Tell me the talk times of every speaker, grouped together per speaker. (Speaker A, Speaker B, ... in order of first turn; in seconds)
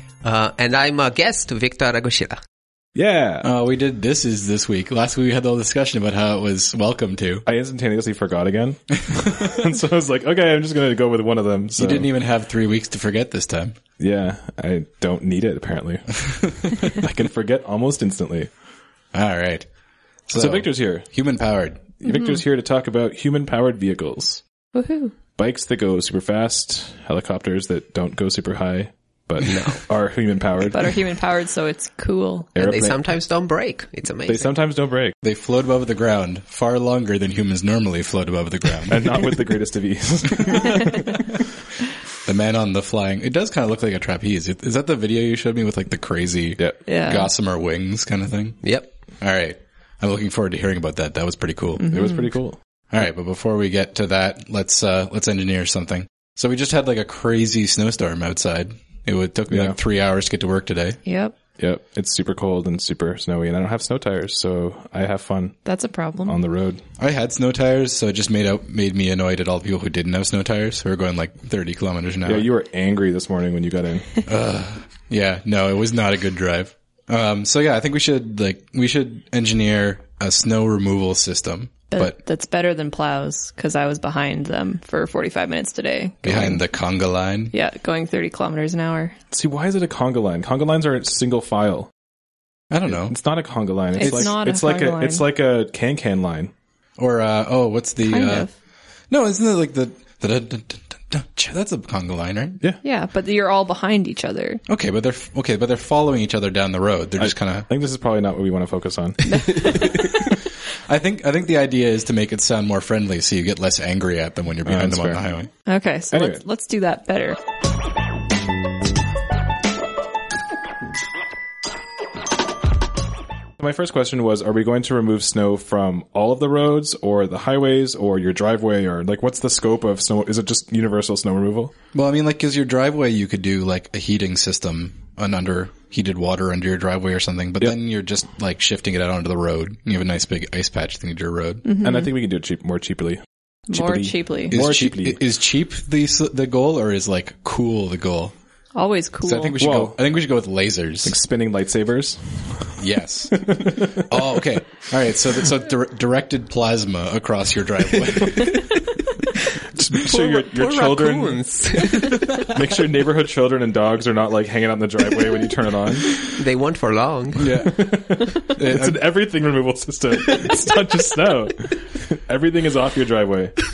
Speaker A: 0.2-2.4, 29.4-29.8, 32.6-34.5, 160.0-162.4, 166.3-167.5
Speaker B: 2.9-3.5, 7.4-12.1, 14.0-18.5, 20.3-21.1, 22.0-24.4, 25.3-31.0, 32.5-33.0, 34.2-35.2, 38.9-41.2, 51.9-52.6, 59.5-59.8, 61.6-65.6, 66.2-66.8, 72.2-74.2, 89.3-91.9, 93.0-96.5, 107.2-109.9, 114.6-115.2, 116.1-116.4, 123.6-131.7, 141.8-145.2, 149.6-150.0, 151.0-152.8, 153.3-154.4, 159.7-161.4, 162.3-166.2, 167.4-173.5
Speaker C: 3.4-7.4, 11.8-13.8, 19.1-19.7, 20.3-22.0, 35.2-39.3, 42.2-48.7, 49.2-51.9, 52.9-61.0, 67.0-72.5, 74.2-82.2, 86.2-87.5, 92.7-93.1, 94.0-94.3, 97.0-98.5, 99.1-102.6, 104.7-107.7, 110.9-115.5, 131.9-141.6, 144.5-148.3, 149.2-151.1, 152.8-158.7, 167.4-169.0
Speaker D: 22.1-22.4, 24.7-25.1, 30.6-32.5, 46.9-47.3, 51.9-52.2, 61.0-61.3, 65.6-66.4, 81.9-86.6, 87.5-89.1, 93.9-95.2, 98.0-98.5, 102.8-104.6, 115.7-117.4, 141.6-142.1, 143.7-144.6, 148.7-149.5